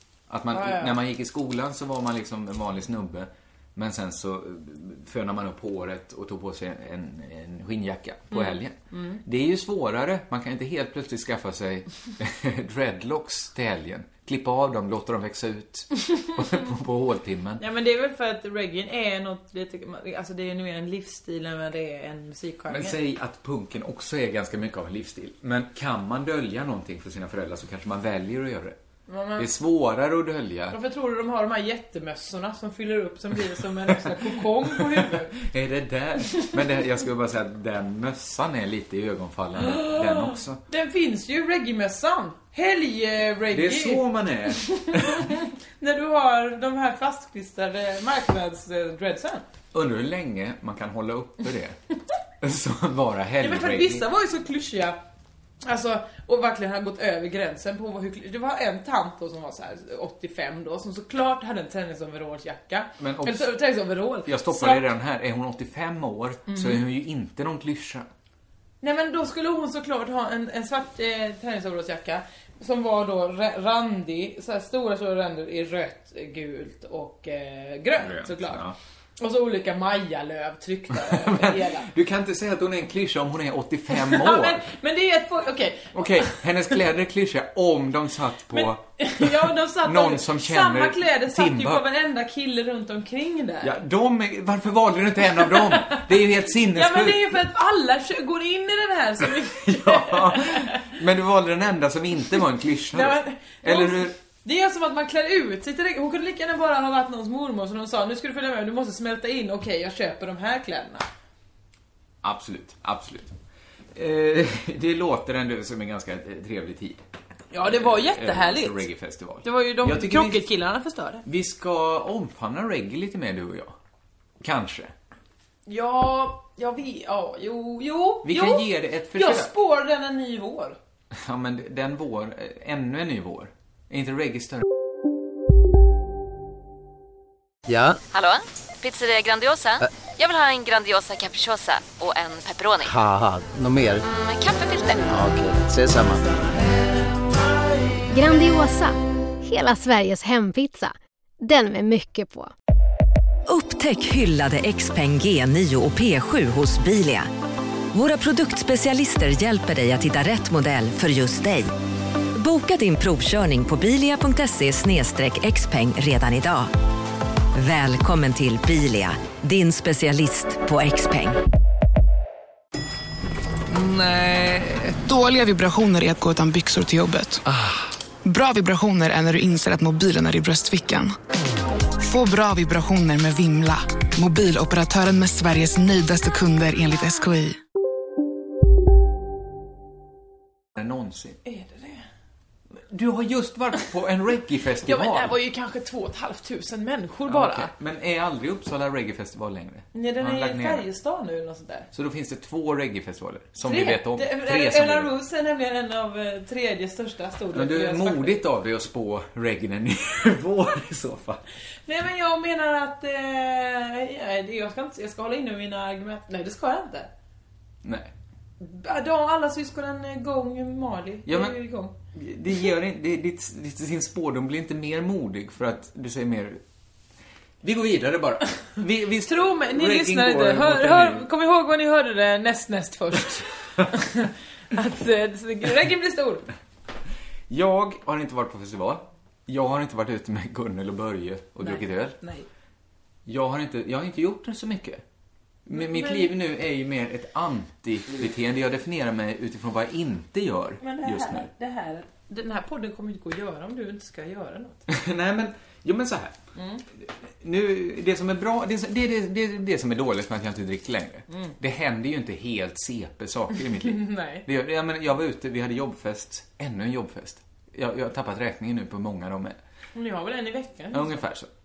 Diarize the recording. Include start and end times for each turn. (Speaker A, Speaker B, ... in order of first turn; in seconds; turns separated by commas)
Speaker A: 0.3-17.6, Speaker B: 0.5-1.0, Speaker B: 8.3-9.2, Speaker B: 17.6-23.0, Speaker A: 22.7-28.8, Speaker B: 29.1-29.5, Speaker A: 29.4-30.8, Speaker B: 30.7-35.3, Speaker A: 33.9-40.6, Speaker B: 39.6-49.4, Speaker A: 43.5-45.4, Speaker A: 49.7-51.8, Speaker A: 52.4-54.0, Speaker B: 53.4-55.0, Speaker B: 55.6-64.9, Speaker A: 63.0-63.5, Speaker A: 64.2-68.1, Speaker B: 66.5-66.8, Speaker B: 68.8-78.6, Speaker A: 78.0-78.8, Speaker B: 79.2-81.9, Speaker A: 80.9-84.6, Speaker B: 83.9-86.5, Speaker A: 85.9-91.8, Speaker B: 88.5-93.8, Speaker A: 93.6-97.4, Speaker B: 95.4-100.9, Speaker A: 99.4-104.1, Speaker B: 102.9-111.0, Speaker A: 112.2-113.3, Speaker A: 113.9-117.0, Speaker B: 117.5-118.8, Speaker A: 117.6-120.5, Speaker B: 119.4-121.2, Speaker A: 121.2-123.8, Speaker A: 124.4-124.9, Speaker B: 125.7-130.8, Speaker A: 128.2-129.5, Speaker A: 131.1-134.6, Speaker C: 137.7-138.0, Speaker D: 138.1-142.9, Speaker C: 142.8-144.0, Speaker D: 144.1-145.0, Speaker C: 145.1-146.3, Speaker E: 148.1-152.5, Speaker F: 153.4-157.3, Speaker F: 157.9-161.7, Speaker F: 162.3-166.7, Speaker F: 167.5-171.4, Speaker G: 174.0-177.4, Speaker G: 178.2-181.1, Speaker G: 182.0-187.6, Speaker A: 190.8-191.4, Speaker B: 191.4-192.0, Speaker A: 192.8-195.3, Speaker B: 194.8-197.7, Speaker A: 197.2-200.8, Speaker B: 199.9-201.9, Speaker A: 201.9-205.1, Speaker B: 203.6-208.4, Speaker A: 207.5-211.4, Speaker B: 211.9-217.1, Speaker A: 217.8-218.1, Speaker B: 218.6-221.9, Speaker A: 221.2-221.6, Speaker A: 222.1-226.6, Speaker A: 227.6-231.2, Speaker B: 229.2-236.4, Speaker A: 237.5-242.2, Speaker B: 241.6-242.4, Speaker A: 243.2-245.0, Speaker A: 245.7-251.5, Speaker B: 245.7-246.3, Speaker B: 250.8-254.8, Speaker A: 254.9-256.4, Speaker B: 256.6-256.8, Speaker A: 257.0-269.6, Speaker B: 263.8-264.4, Speaker B: 269.9-271.2, Speaker A: 270.9-271.5